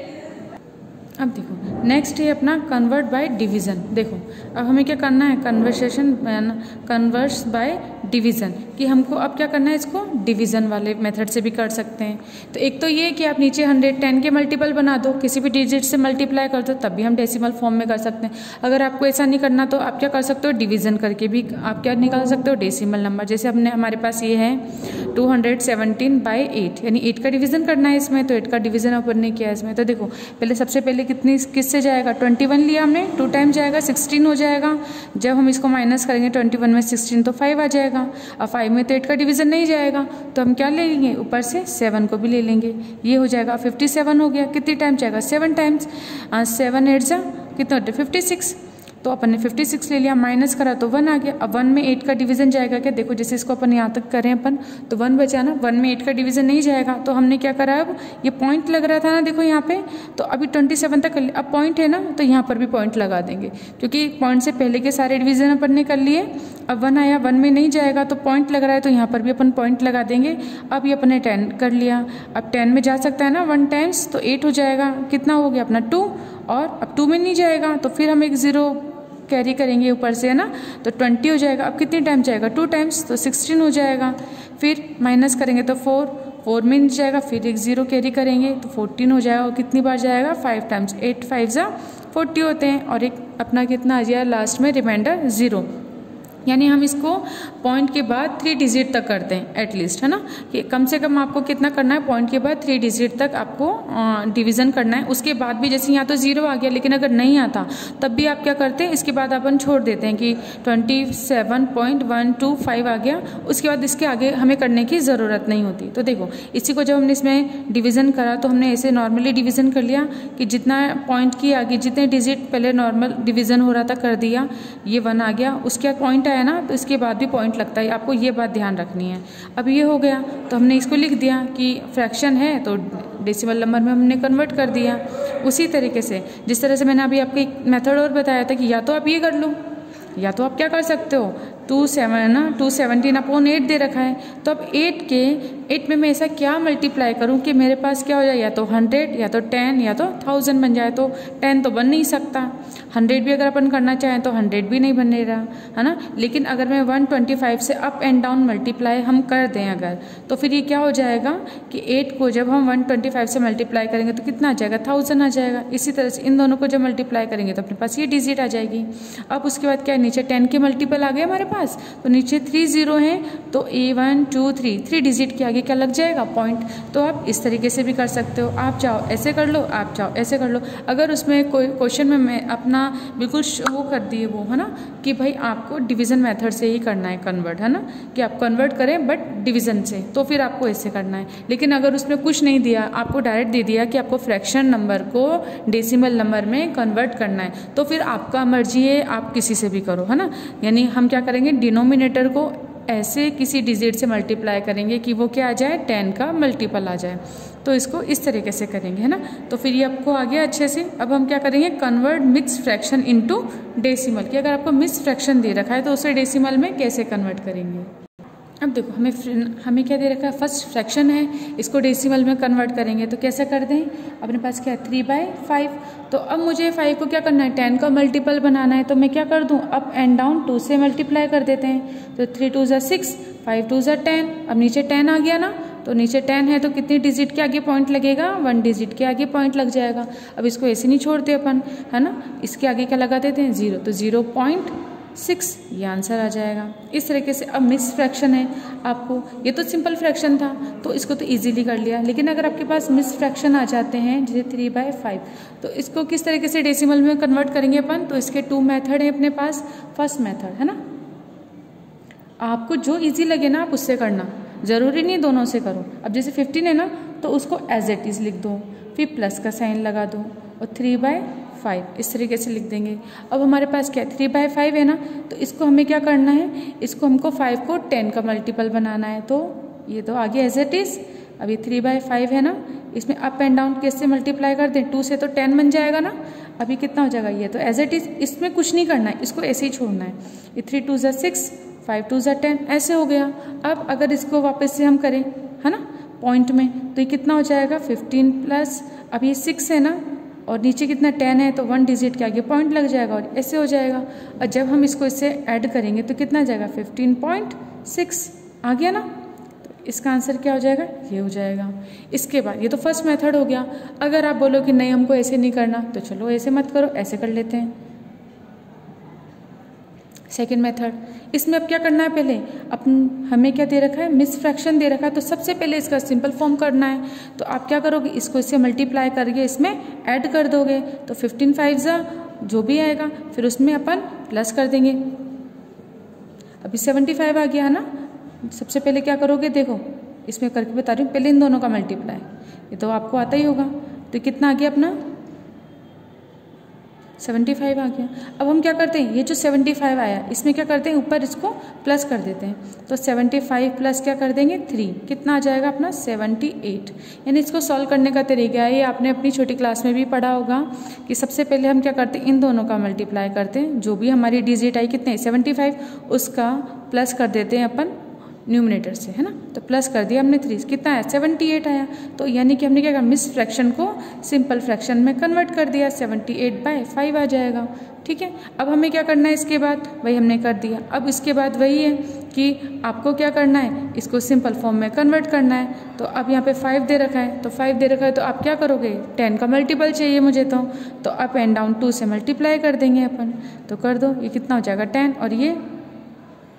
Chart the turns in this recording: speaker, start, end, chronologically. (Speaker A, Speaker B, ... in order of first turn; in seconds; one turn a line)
Speaker A: 1.2-95.7
Speaker A: 96.5-139.6
Speaker A: 140.2-217.9
Speaker A: 218.6-260.8
Speaker A: 262.4-309.1
Speaker A: 309.6-317.8
Speaker A: 320.3-335.2
Speaker A: 336.6-337.9
Speaker A: 338.4-345.0
Speaker A: 347.2-395.6